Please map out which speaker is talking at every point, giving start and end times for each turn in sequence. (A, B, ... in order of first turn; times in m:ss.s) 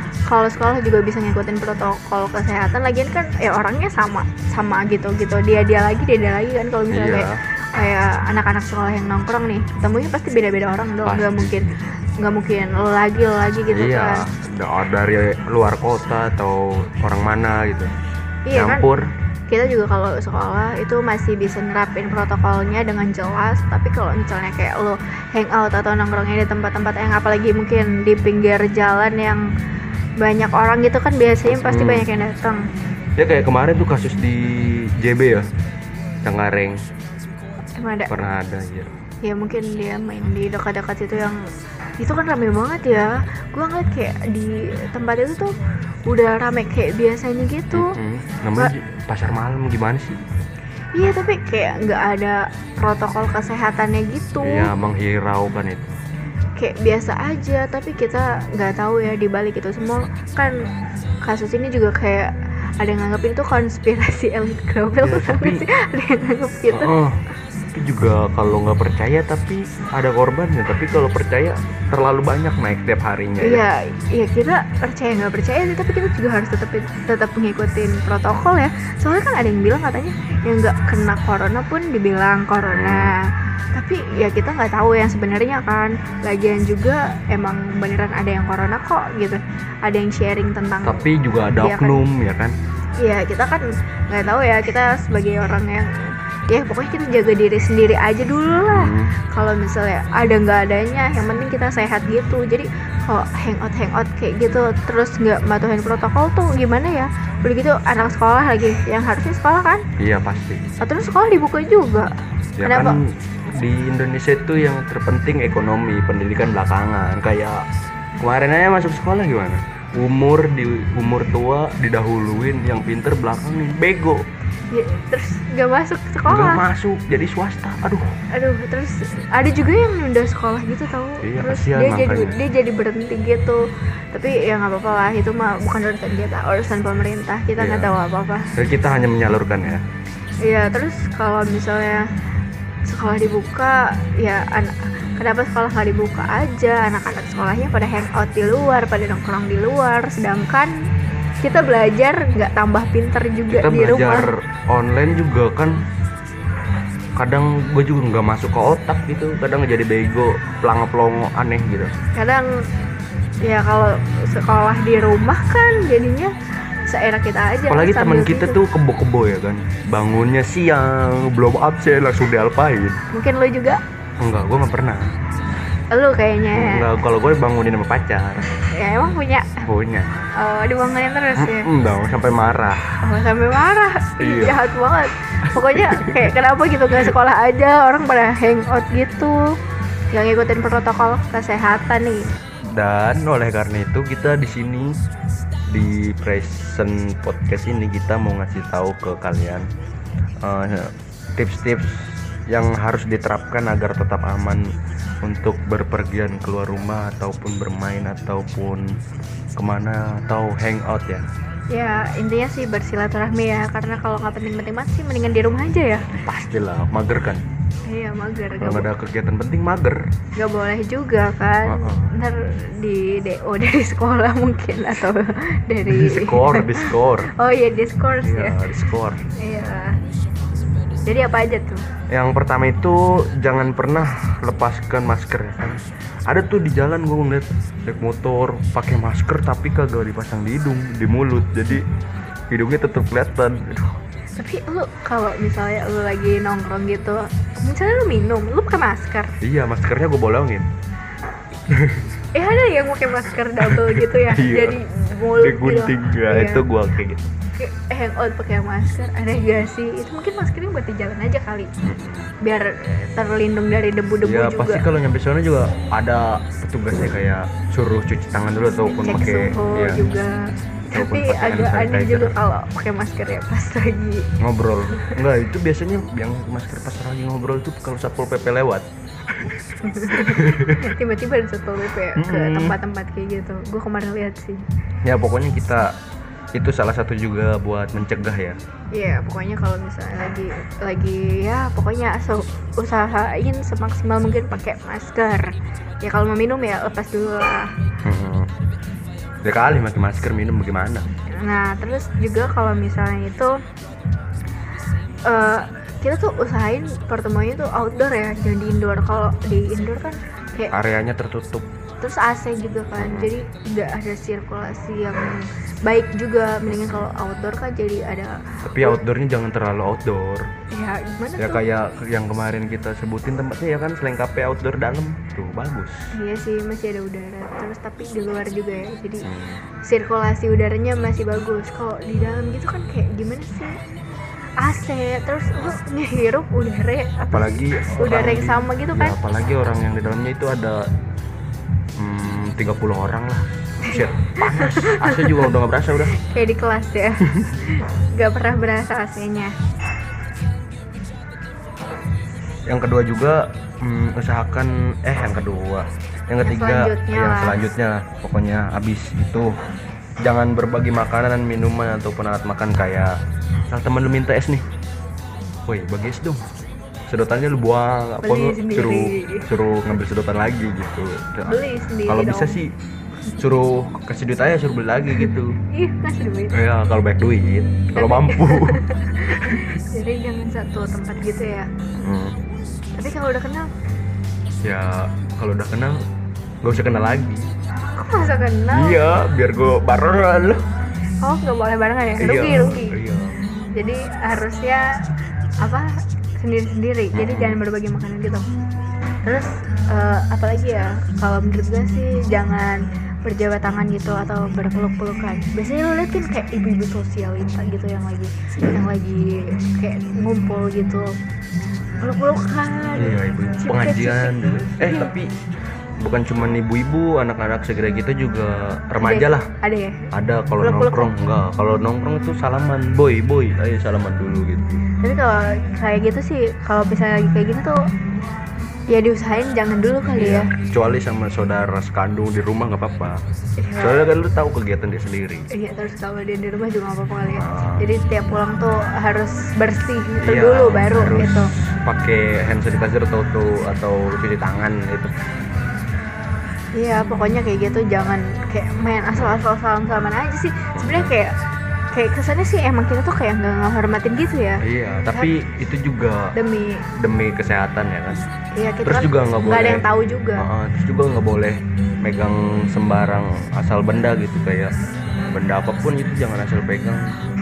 0:00.3-0:14.2 A
0:06.9-0:07.4 B
0:11.0-0:11.7 B
0:13.7-0:17.9 B
0:18.5-0:18.9 A
0:18.6-0:19.0 B
0:19.5-0:29.5 A
0:30.2-0:32.6 A
0:31.5-0:32.1 B
0:33.2-0:35.5 B
0:36.2-0:36.9 B
0:37.8-0:38.1 A
0:38.1-0:38.9 B
0:39.2-0:48.0 A
0:47.7-0:50.2 B
0:50.9-0:54.7 A
0:54.4-0:56.0 B
0:56.6-1:00.7 A
1:01.2-1:06.9 A
1:05.0-1:05.6 B
1:06.7-1:07.2 B
1:07.7-1:13.6 B
1:13.4-1:32.0 A
1:22.7-1:23.1 B
1:30.8-1:32.6 B
1:33.0-1:49.9 A
1:38.7-1:39.1 B
1:50.0-1:50.6 B
1:50.8-1:52.1 A
1:52.6-1:57.7 B
1:52.6-1:53.0 A
1:58.2-2:04.2 B
2:04.7-2:06.6 A
2:06.3-2:08.1 B
2:08.3-2:18.5 A
2:11.2-2:12.4 B
2:17.6-2:17.9 B
2:18.6-2:19.8 B
2:20.4-2:22.1 A
2:22.9-2:30.8 A
2:31.4-2:34.3 A
2:33.5-2:35.8 B
2:37.2-2:41.9 B
2:42.1-2:42.7 A
2:43.4-2:46.3 A
2:46.9-2:48.6 A
2:47.7-2:53.0 B
2:53.1-2:53.8 A
2:54.2-2:55.1 B
2:55.9-2:56.9 A
2:56.5-2:58.5 B
2:58.7-2:59.7 A
2:59.6-3:00.3 B
3:00.4-3:01.7 A
3:01.4-3:02.8 B
3:03.0-3:09.5 A
3:04.2-3:04.6 B
3:05.5-3:06.3 B
3:10.1-3:12.3 A
3:12.7-3:15.0 B
3:15.7-3:19.7 B
3:20.4-3:24.7 B
3:25.2-3:29.0 B
3:29.6-3:31.3 B
3:31.7-3:36.1 A
3:36.2-3:37.4 B
3:37.9-3:38.9 A
3:38.6-3:40.0 B
3:40.4-3:48.6 A
3:41.6-3:42.1 B
3:45.9-3:47.3 B
3:48.2-3:49.2 B
3:49.4-3:50.0 A
3:51.1-3:51.8 A
3:52.1-4:01.8 B
4:02.5-4:04.0 B
4:04.4-4:09.4 A
4:09.4-4:10.7 B
4:11.7-4:12.1 B
4:12.4-4:16.7 A
4:13.6-4:14.8 B
4:15.4-4:17.3 B
4:17.6-4:21.7 A
4:21.8-4:22.3 B
4:22.4-4:24.8 A
4:24.2-4:30.0 B
4:28.9-4:34.3 A
4:30.9-4:32.4 B
4:34.4-4:40.9 B
4:39.8-4:44.6 A
4:42.2-4:42.8 B
4:45.0-4:46.0 B
4:46.5-4:48.6 B
4:48.9-4:57.7 A
4:58.0-4:58.5 B
4:59.4-5:01.1 B
5:01.4-5:03.6 A
5:05.3-5:10.7 A
5:10.7-5:11.7 B
5:12.0-5:19.0 A
5:13.0-5:13.3 B
5:16.7-5:17.1 B
5:18.6-5:20.5 B
5:20.7-5:21.6 A
5:21.4-5:26.1 B
5:26.1-5:29.3 A
5:29.2-5:29.6 B
5:29.8-5:33.8 A
5:34.6-5:39.2 A
5:37.3-5:40.9 B
5:42.0-5:46.2 B
5:43.8-5:45.5 A
5:46.1-5:49.5 A
5:52.7-5:59.6 B
5:56.4-5:57.6 A
6:00.2-6:03.2 B
6:03.7-6:04.7 B
6:05.7-6:06.5 B
6:07.1-6:12.7 B
6:08.2-6:09.5 A
6:11.5-6:12.6 A
6:13.4-6:15.6 B
6:15.7-6:16.5 A
6:16.5-6:19.7 B
6:18.0-6:21.7 A
6:22.0-6:22.4 B
6:23.0-6:23.7 A
6:24.6-6:26.0 B
6:26.6-6:27.5 B
6:28.0-6:29.1 A
6:28.7-6:30.6 B
6:31.2-6:32.9 A
6:32.2-6:33.4 B
6:33.8-6:35.1 A
6:35.6-6:38.5 A
6:37.1-6:37.6 B
6:39.2-6:51.2 A
6:52.0-6:55.1 A
6:53.0-6:55.3 B
6:56.0-6:59.5 B
6:59.0-7:00.1 A
7:00.1-7:04.8 B
7:00.6-7:01.1 A
7:05.0-7:07.8 A
7:08.9-7:10.5 A
7:10.0-7:13.2 B
7:13.6-7:14.1 A
7:13.8-7:15.5 B
7:15.5-7:21.5 A
7:17.4-7:17.9 B
7:20.2-7:25.1 B
7:26.8-7:31.3 A
7:30.8-7:31.1 B
7:31.9-7:35.3 A
7:34.6-7:36.4 B
7:36.4-7:36.9 A
7:36.9-7:38.3 B
7:38.5-7:40.5 A
7:38.8-7:39.9 B
7:40.4-7:44.7 B
7:45.3-7:47.1 B